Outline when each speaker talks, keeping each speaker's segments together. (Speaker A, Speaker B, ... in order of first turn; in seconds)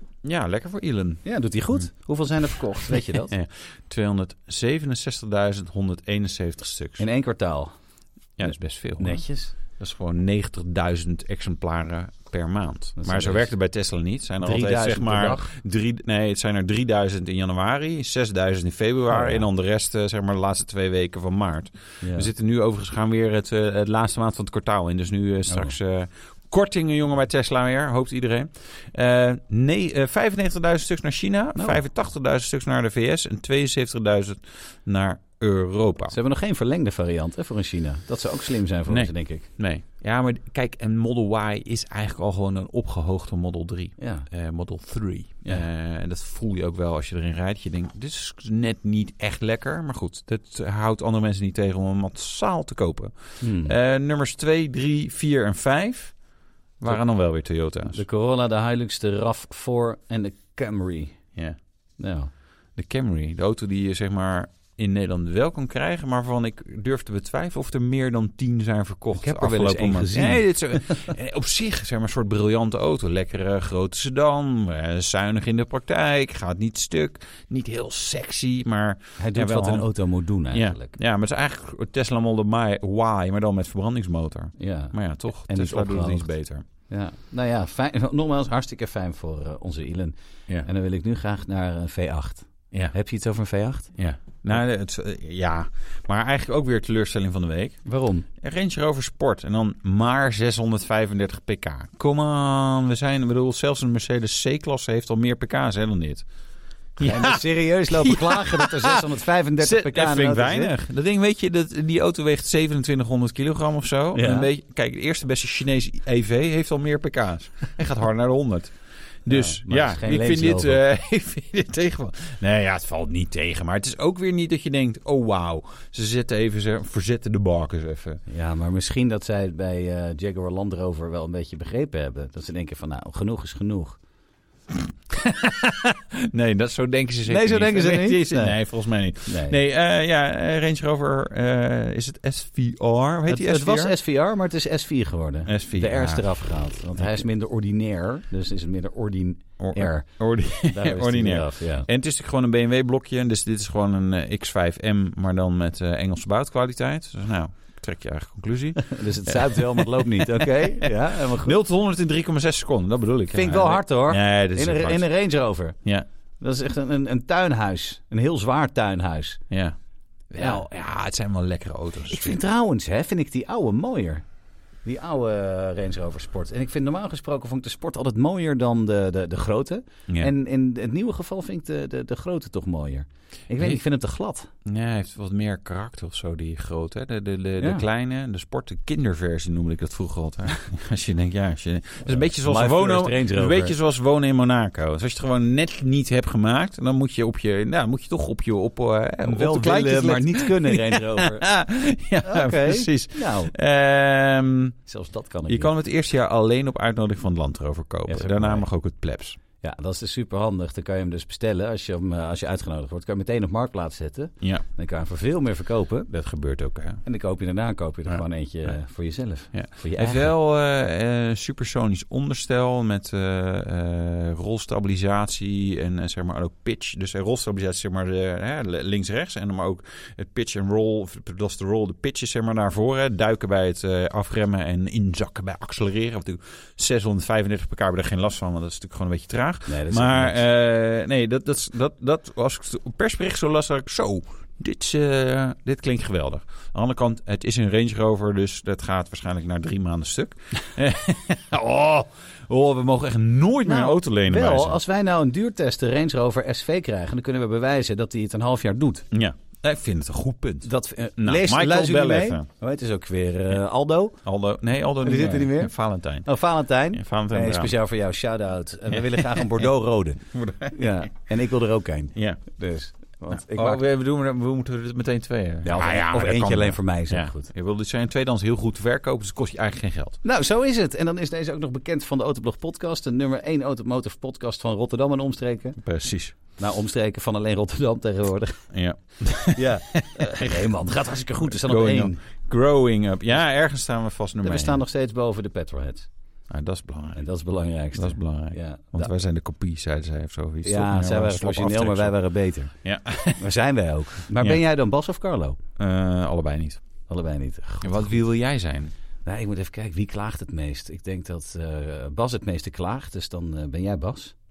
Speaker A: 0.2-1.2, 3.2-7.0, 8.4-36.1, 38.9-56.1, 56.8-58.0, 62.7-79.9, 80.5-86.6, 94.0-97.8, 98.4-106.2, 107.0-109.0, 109.6-118.7, 119.2-128.2, 135.1-143.9, 145.4-146.4, 146.9-147.2, 149.6-165.1, 169.5-169.8, 170.3-172.4, 184.6-204.8, 205.5-209.4, 216.1-217.0, 219.5-254.8, 259.1-262.4, 264.2-266.3, 266.9-267.7, 269.1-269.6, 270.3-270.9, 272.1-272.4, 273.3-280.2, 285.8-286.4, 288.7-290.7, 291.5-294.8, 296.5-297.2, 297.9-302.1, 302.8-303.5, 305.8-306.8, 307.8-308.9
Speaker B: 1.2-3.3, 7.0-7.7, 8.4-9.5, 13.0-13.5, 14.4-15.5, 19.1-19.5, 22.0-22.3, 25.5-25.7, 31.6-31.8, 36.1-39.5, 44.0-44.2, 53.4-53.7, 57.9-61.2, 62.0-62.3, 69.1-71.1, 79.2-80.9, 84.6-84.9, 85.5-86.3, 86.9-93.9, 97.8-98.2, 107.0-110.7, 114.1-114.5, 119.3-120.8, 128.3-134.0, 137.3-138.6, 139.2-139.6, 143.3-151.9, 158.8-161.6, 163.3-165.8, 166.4-169.4, 170.4-170.6, 172.1-174.2, 174.8-184.5, 187.6-187.9, 192.1-193.8, 199.2-201.5, 202.2-203.5, 204.9-205.7, 208.1-208.7, 209.6-216.1, 217.0-220.3, 239.7-240.4, 253.6-259.1, 260.6-264.2, 265.0-265.7, 266.2-273.8, 275.6-277.5, 280.2-285.8, 286.5-288.7, 289.5-292.2, 294.4-296.1, 297.1-299.1, 300.6-302.7, 303.4-305.6, 307.1-308.2, 309.2-314.4